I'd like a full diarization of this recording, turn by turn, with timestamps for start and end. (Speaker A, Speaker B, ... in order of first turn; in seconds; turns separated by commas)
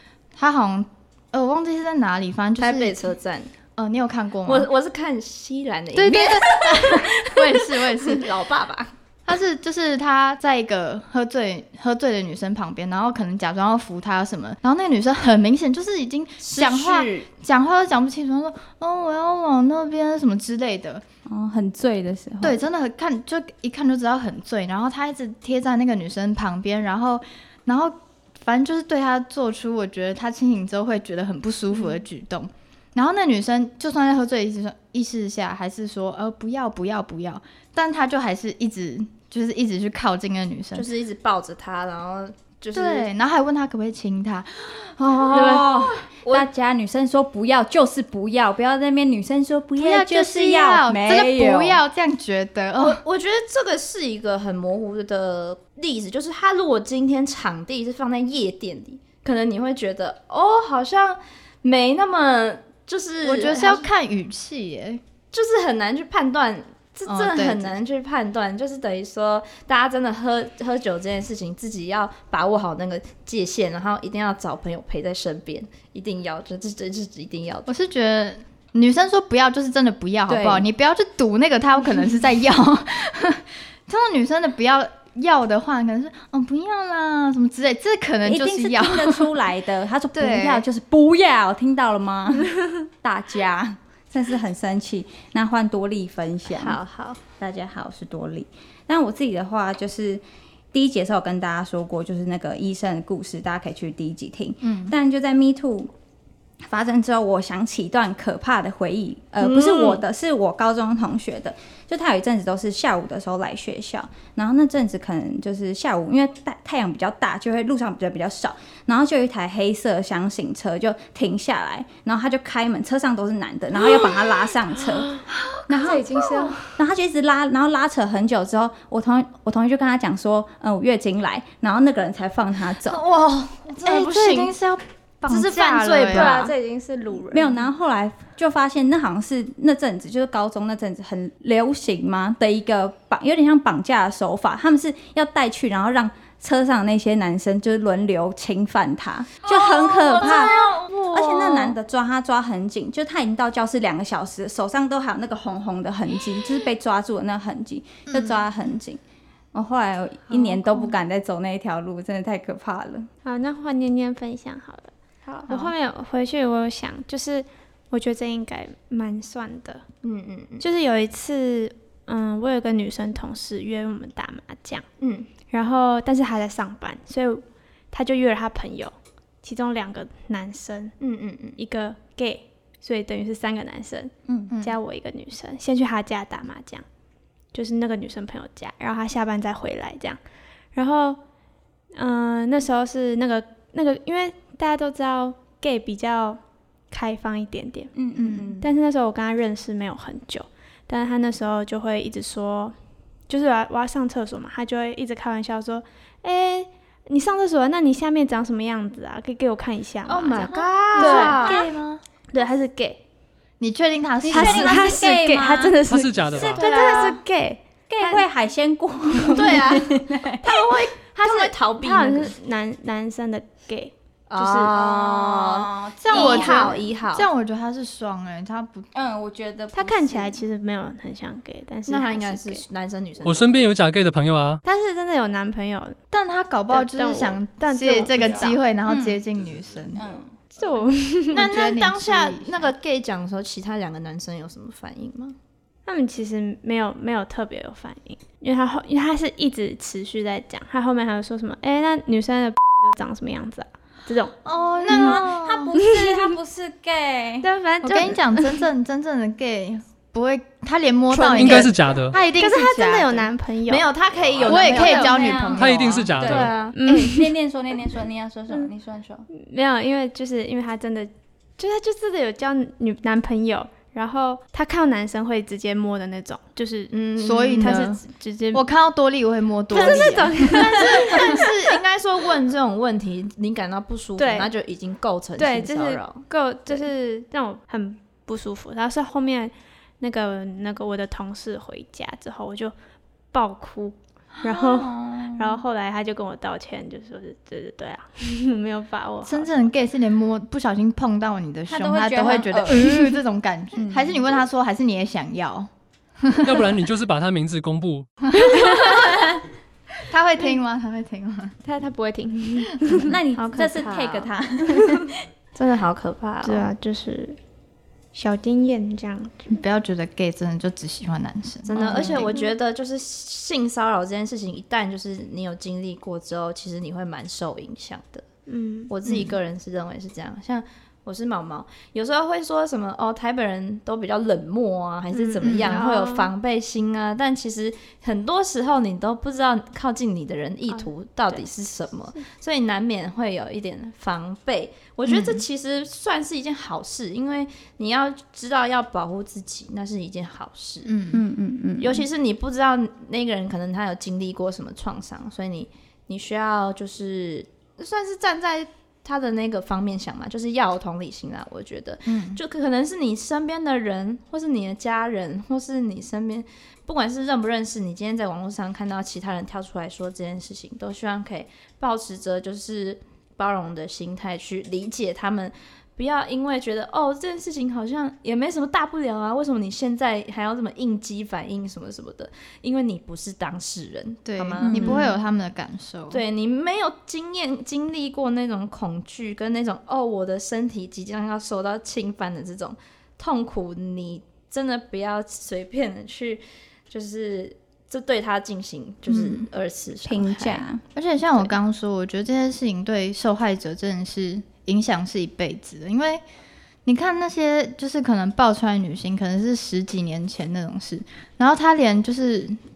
Speaker A: 0.3-3.1, Speaker B: 2.6-3.5, Speaker A: 3.8-4.7, Speaker B: 4.5-8.9, Speaker A: 5.9-8.3, Speaker A: 9.3-21.0, Speaker B: 16.4-17.3, Speaker C: 21.3-22.6, Speaker A: 22.4-40.9, Speaker B: 40.7-43.1, Speaker A: 42.7-45.9, Speaker B: 45.3-46.5, Speaker C: 45.3-51.8, Speaker A: 49.8-53.0, Speaker B: 52.8-63.9, Speaker A: 63.2-65.0, Speaker B: 65.3-77.7, Speaker A: 67.1-67.8, Speaker A: 77.7-89.3, Speaker C: 80.3-80.7, Speaker C: 88.2-96.8, Speaker A: 90.1-90.7, Speaker B: 96.5-97.2, Speaker C: 97.4-105.9, Speaker A: 104.6-104.9, Speaker C: 106.6-125.1, Speaker B: 109.4-110.0, Speaker C: 125.7-133.0, Speaker D: 125.8-126.7, Speaker B: 132.8-134.5, Speaker A: 133.8-136.4, Speaker B: 135.2-136.6, Speaker D: 136.1-137.4, Speaker C: 137.2-150.6, Speaker B: 149.4-151.8, Speaker C: 151.1-159.0, Speaker A: 158.1-158.4, Speaker C: 159.5-163.1, Speaker A: 160.3-160.9, Speaker D: 163.2-169.8, Speaker B: 170.0-170.7, Speaker D: 170.6-174.8, Speaker B: 175.0-175.3, Speaker D: 175.5-180.9, Speaker B: 181.0-181.6, Speaker D: 181.6-186.8, Speaker C: 184.3-184.5, Speaker A: 184.5-184.8, Speaker D: 187.5-190.2, Speaker D: 190.7-191.2, Speaker D: 191.9-196.4, Speaker D: 196.9-197.9, Speaker C: 197.9-198.7, Speaker A: 198.2-198.5, Speaker D: 198.6-202.7, Speaker D: 203.3-211.7, Speaker B: 210.1-211.7, Speaker A: 211.0-212.0, Speaker D: 212.3-213.0, Speaker A: 213.6-214.8, Speaker C: 214.2-216.6, Speaker D: 214.3-218.2, Speaker E: 215.8-216.6, Speaker B: 216.4-217.2, Speaker C: 217.9-220.4, Speaker B: 219.3-222.3, Speaker D: 221.2-224.7, Speaker B: 224.3-227.3, Speaker C: 224.7-226.8, Speaker A: 226.0-228.9, Speaker C: 228.9-230.4, Speaker D: 229.7-232.6, Speaker B: 231.9-233.7, Speaker E: 233.2-234.6, Speaker D: 234.6-236.0, Speaker A: 236.1-240.0, Speaker D: 236.7-238.6, Speaker C: 238.8-239.2, Speaker C: 239.9-240.3, Speaker D: 240.5-241.4, Speaker B: 241.3-245.3, Speaker A: 241.3-242.7, Speaker D: 245.8-254.3, Speaker A: 254.4-255.7, Speaker B: 254.8-255.2, Speaker C: 254.8-257.5, Speaker D: 255.8-256.3, Speaker D: 257.4-258.6, Speaker A: 257.8-263.3, Speaker B: 261.1-261.7, Speaker E: 261.3-262.2, Speaker D: 262.3-263.9, Speaker B: 263.7-265.6, Speaker A: 264.4-266.1, Speaker C: 264.4-269.2, Speaker E: 265.6-266.5, Speaker B: 266.2-266.8, Speaker D: 266.7-267.3, Speaker D: 269.3-277.0, Speaker B: 276.9-277.9, Speaker A: 277.2-278.0, Speaker D: 277.5-278.7, Speaker A: 278.5-281.4, Speaker D: 279.7-281.5, Speaker B: 279.7-286.9, Speaker D: 284.2-284.5, Speaker D: 285.4-292.7, Speaker D: 293.3-299.6, Speaker C: 294.4-295.6, Speaker A: 299.2-305.7, Speaker C: 301.7-303.2, Speaker C: 303.8-304.2, Speaker A: 306.2-306.7, Speaker E: 306.4-308.1, Speaker A: 308.3-309.4, Speaker D: 308.5-309.1, Speaker A: 310.1-311.5, Speaker D: 311.6-313.1, Speaker C: 313.0-315.1, Speaker B: 313.4-314.3, Speaker B: 315.5-316.7, Speaker D: 316.4-317.4, Speaker D: 318.1-319.6, Speaker A: 319.5-322.3, Speaker B: 321.6-328.2, Speaker D: 328.5-328.9, Speaker B: 328.9-350.9, Speaker A: 329.1-329.4, Speaker D: 335.1-336.3, Speaker A: 335.4-335.8, Speaker D: 340.7-341.5, Speaker A: 345.1-345.4, Speaker A: 350.8-351.2, Speaker C: 351.1-352.1, Speaker B: 351.8-385.1, Speaker A: 362.1-362.4, Speaker A: 384.2-386.2, Speaker C: 384.6-385.1, Speaker B: 386.1-400.6, Speaker A: 399.1-399.5, Speaker C: 400.0-400.8, Speaker A: 400.9-406.2, Speaker A: 406.8-412.6